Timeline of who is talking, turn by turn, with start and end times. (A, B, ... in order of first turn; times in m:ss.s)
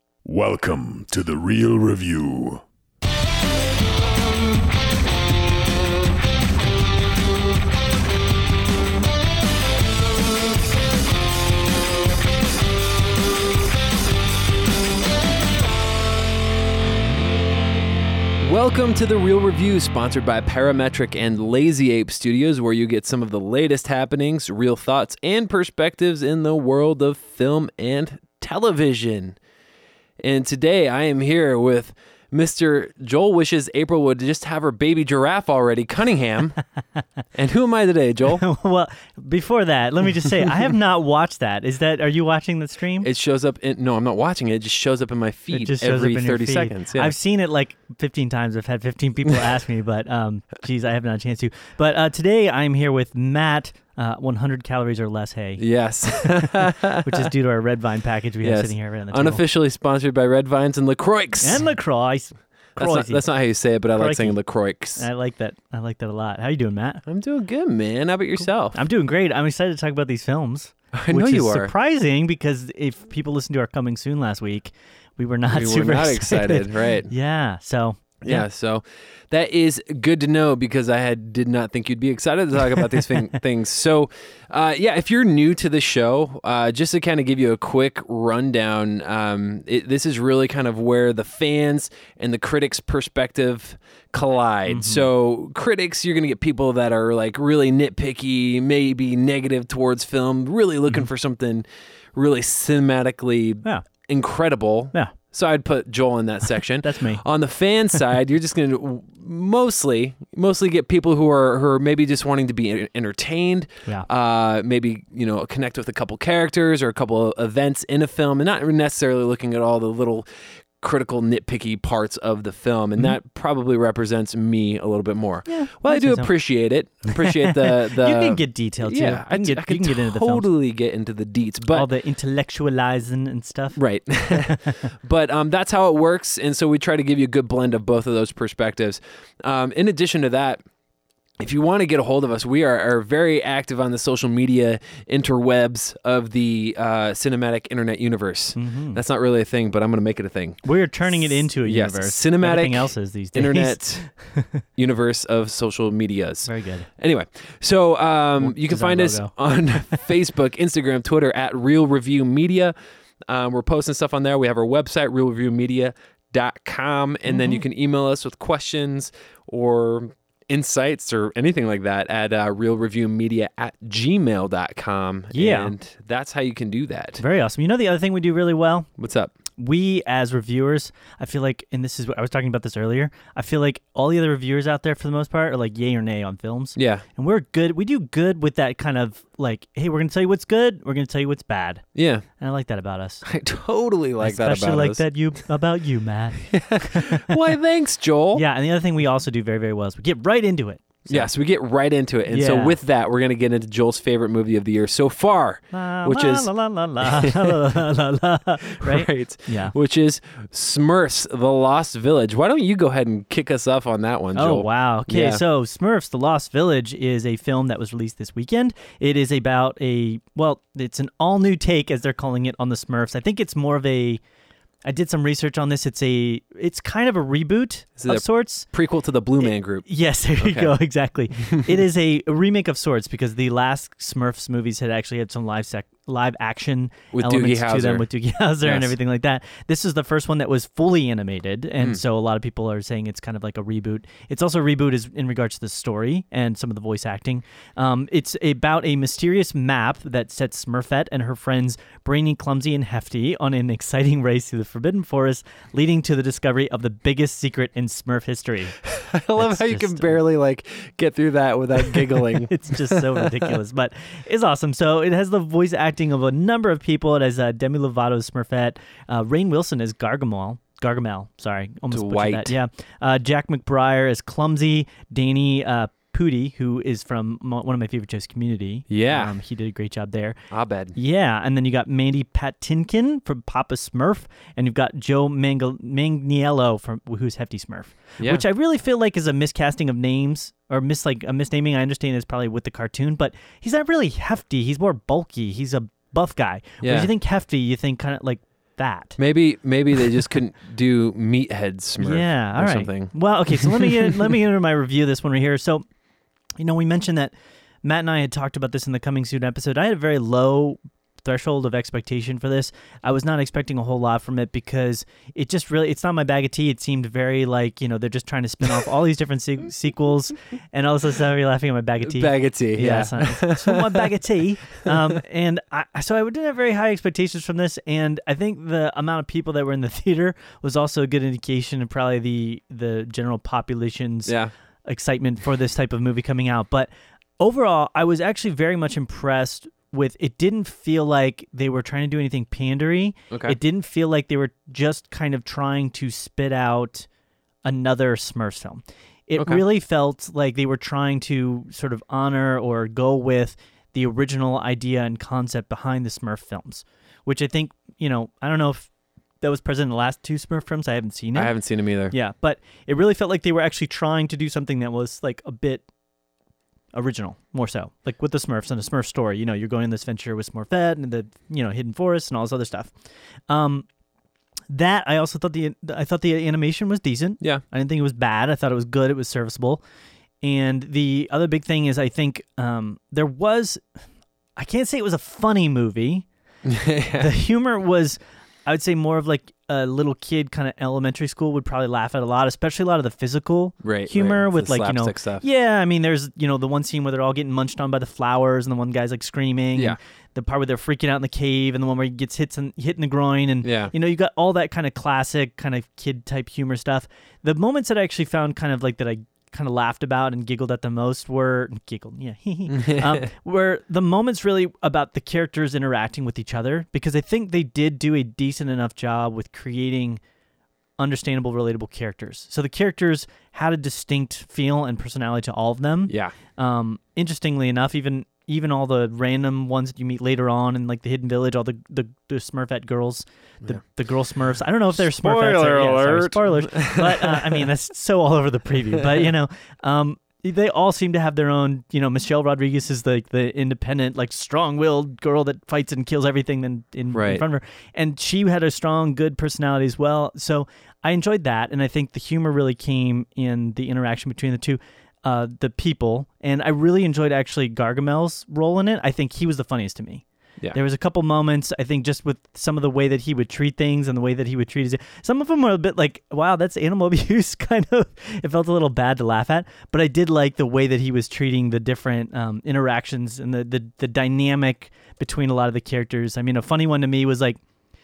0:00.2-0:02.6 A
0:18.4-0:29.4 B
0:30.2-0:36.6 B
0:37.3-0:38.4 B
0:38.4-0:43.1 C
0:43.0-0:47.1 B
0:45.5-0:59.4 C
0:55.6-0:57.3 B
0:58.4-1:01.7 B
1:01.4-1:03.3 C
1:02.8-1:05.0 B
1:04.0-1:04.4 C
1:05.0-1:07.0 C
1:07.1-1:08.8 B
1:08.7-1:18.5 C
1:11.0-1:11.7 B
1:15.5-1:17.1 B
1:18.2-2:00.3 B
1:34.7-1:35.1 C
1:46.8-1:47.2 C
2:00.8-2:11.9 B
2:05.5-2:06.4 C
2:07.1-2:10.5 C
2:11.7-2:14.8 C
2:13.8-2:20.6 B
2:21.4-2:42.7 B
2:28.6-2:29.0 C
2:30.6-2:34.5 C
2:36.5-2:36.9 C
2:38.4-2:39.4 C
2:43.3-2:57.2 B
2:47.3-2:47.6 C
2:55.3-2:55.7 C
2:57.2-2:58.9 C
2:59.0-2:59.3 B
2:59.6-3:13.2 C
3:06.8-3:07.0 B
3:12.0-3:12.2 B
3:13.2-3:15.1 B
3:14.2-3:17.4 C
3:16.5-3:18.4 B
3:18.4-3:21.3 C
3:21.1-3:27.6 B
3:22.3-3:22.8 C
3:25.7-3:29.7 C
3:28.7-3:35.4 B
3:34.4-3:44.2 C
3:44.8-3:48.7 C
3:48.0-3:49.8 B
3:49.4-4:18.8 C
3:50.4-3:50.7 B
3:51.5-3:51.8 B
3:57.1-3:58.1 B
3:58.6-3:58.9 B
4:18.9-4:23.5 B
4:19.4-4:20.2 C
4:21.9-4:40.4 C
4:31.9-4:32.6 B
4:38.9-4:39.3 B
4:40.5-4:41.0 B
4:41.0-4:59.2 C
4:56.8-4:57.1 B
4:59.2-5:04.2 B
5:02.0-5:05.8 C
5:06.6-5:34.3 C
5:22.0-5:24.1 B
5:34.3-5:34.5 B
5:34.8-5:47.1 C
5:43.3-5:43.6 B
5:47.6-5:58.9 C
5:59.4-6:01.6 C
6:01.3-6:02.2 B
6:02.1-6:05.9 C
6:06.9-6:13.0 C
6:13.5-6:13.9 C
6:14.7-6:19.8 C
6:20.4-6:23.9 C
6:24.6-6:26.3 C
6:26.6-6:27.3 B
6:27.2-7:00.2 C
6:33.8-6:35.4 B
6:43.6-6:43.9 B
6:52.7-6:53.3 B
7:01.0-7:57.6 C
7:06.1-7:06.3 B
7:14.9-7:17.6 B
7:27.1-7:27.4 B